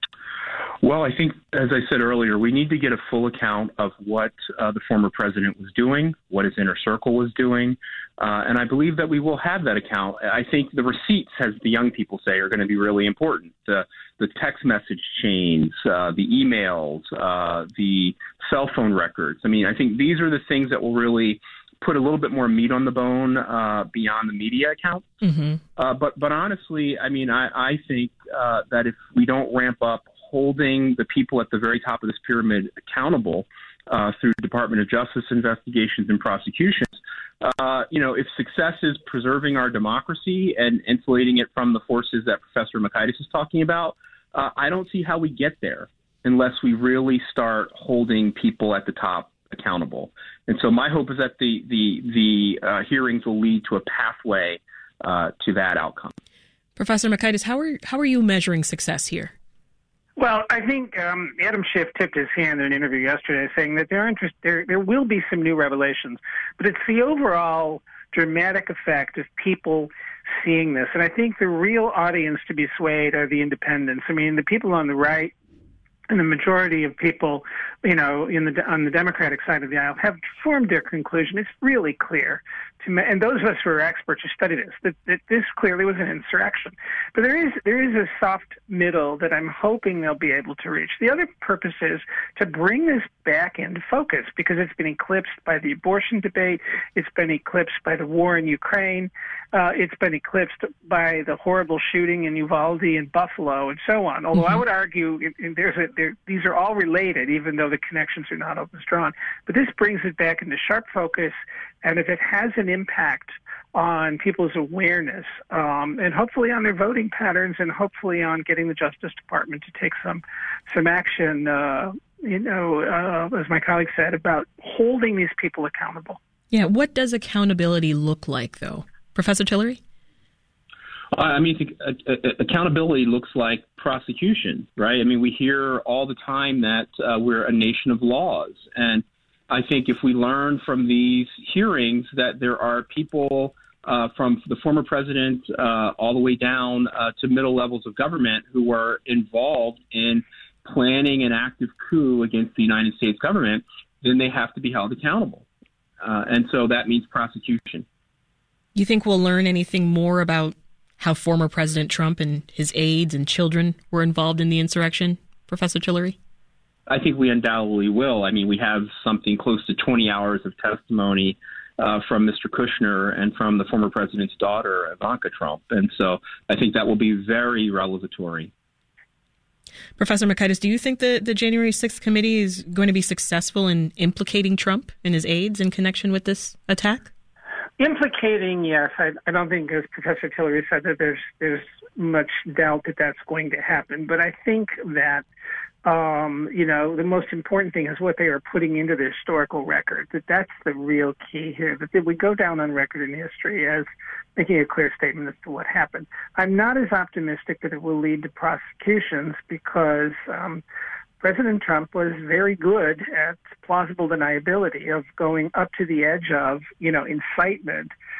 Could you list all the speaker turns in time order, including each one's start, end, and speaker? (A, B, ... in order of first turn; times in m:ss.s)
0:00.8-0:25.1 A
0:25.2-0:25.6 B
0:25.8-0:56.1 A
0:56.8-0:59.3 B
1:00.2-1:15.3 C
1:16.1-2:06.2 C
2:06.5-2:09.8 B
2:11.1-2:35.4 A
2:36.0-2:37.8 A
2:38.7-2:46.2 B
2:46.9-2:58.5 A
3:00.0-3:07.1 B
3:07.8-3:15.2 C
3:15.8-3:30.6 C
3:31.2-3:37.9 C